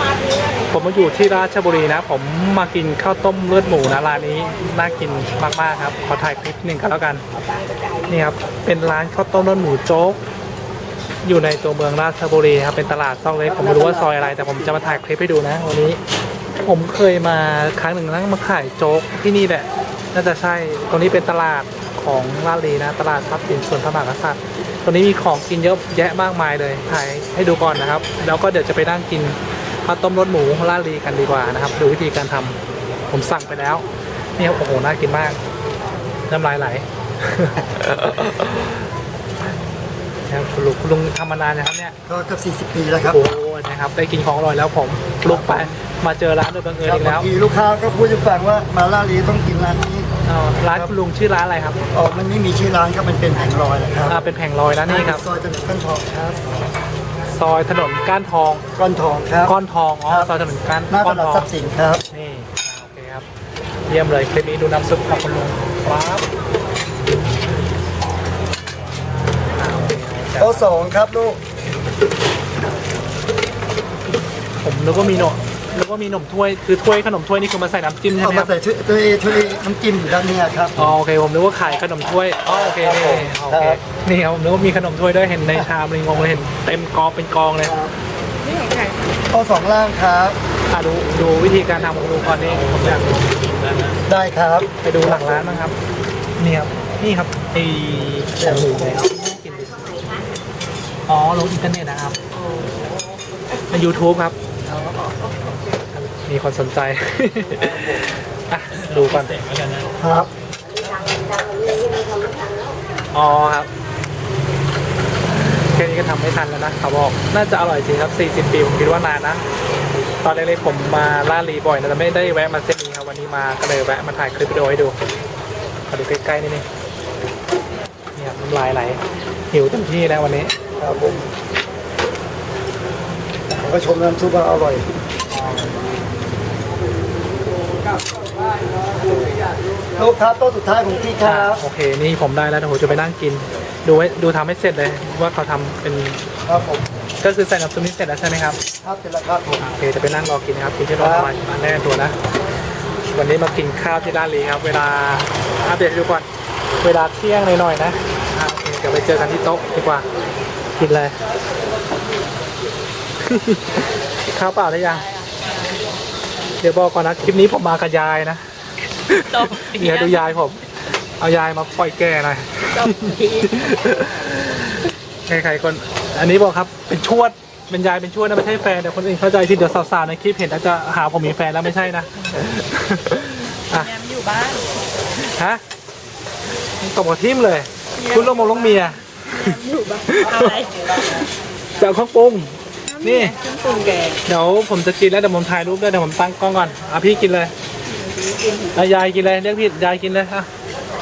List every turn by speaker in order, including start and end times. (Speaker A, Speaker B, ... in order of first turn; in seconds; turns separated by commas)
Speaker A: 0.7-7.2, Speaker A: 8.1-10.2, Speaker A: 11.2-16.0, Speaker A: 16.6-32.6, Speaker A: 33.1-33.8, Speaker A: 34.4-35.4, Speaker A: 36.3-38.8, Speaker A: 40.3-42.0, Speaker B: 42.1-43.2, Speaker A: 43.1-47.3, Speaker B: 45.3-45.7, Speaker B: 46.8-50.1, Speaker A: 50.2-51.8, Speaker B: 51.9-54.2, Speaker A: 54.1-55.2, Speaker B: 54.9-56.4, Speaker A: 57.3-58.6, Speaker B: 58.7-59.5, Speaker A: 59.4-61.5, Speaker B: 60.9-62.0, Speaker A: 62.1-63.2, Speaker A: 63.9-66.2, Speaker A: 69.5-70.8, Speaker B: 70.4-71.4, Speaker A: 74.6-78.5, Speaker B: 78.2-80.9, Speaker A: 80.8-87.8, Speaker B: 82.6-83.8, Speaker B: 87.6-87.9, Speaker C: 88.4-89.2, Speaker B: 89.3-90.4, Speaker A: 90.7-93.8, Speaker B: 94.0-94.7, Speaker A: 94.8-95.8, Speaker A: 96.4-100.0, Speaker B: 98.4-99.1, Speaker A: 101.1-102.2, Speaker A: 103.7-104.4, Speaker C: 104.8-105.1, Speaker A: 105.9-109.5, Speaker B: 110.0-110.3, Speaker A: 113.1-113.7, Speaker A: 115.6-119.4, Speaker A: 120.2-125.0, Speaker A: 125.9-126.7, Speaker A: 128.1-130.6, Speaker B: 130.8-131.3, Speaker B: 133.5-134.9, Speaker B: 140.0-141.6, Speaker A: 141.2-146.2, Speaker B: 146.4-146.8, Speaker A: 147.2-148.6, Speaker B: 148.8-149.7, Speaker A: 149.6-152.2, Speaker B: 151.0-151.3, Speaker A: 153.1-156.2, Speaker A: 156.8-160.1, Speaker A: 160.8-161.2, Speaker A: 163.2-163.8, Speaker A: 164.3-165.1, Speaker A: 166.6-168.4, Speaker A: 169.1-170.6, Speaker C: 169.2-170.3, Speaker A: 171.2-183.9, Speaker C: 172.7-173.7, Speaker C: 183.7-184.7, Speaker A: 185.2-185.6, Speaker A: 186.8-189.5, Speaker C: 188.0-191.0, Speaker A: 190.1-190.7, Speaker A: 191.8-193.3, Speaker C: 192.9-194.2, Speaker A: 194.2-197.5, Speaker C: 198.2-198.8, Speaker A: 198.7-200.5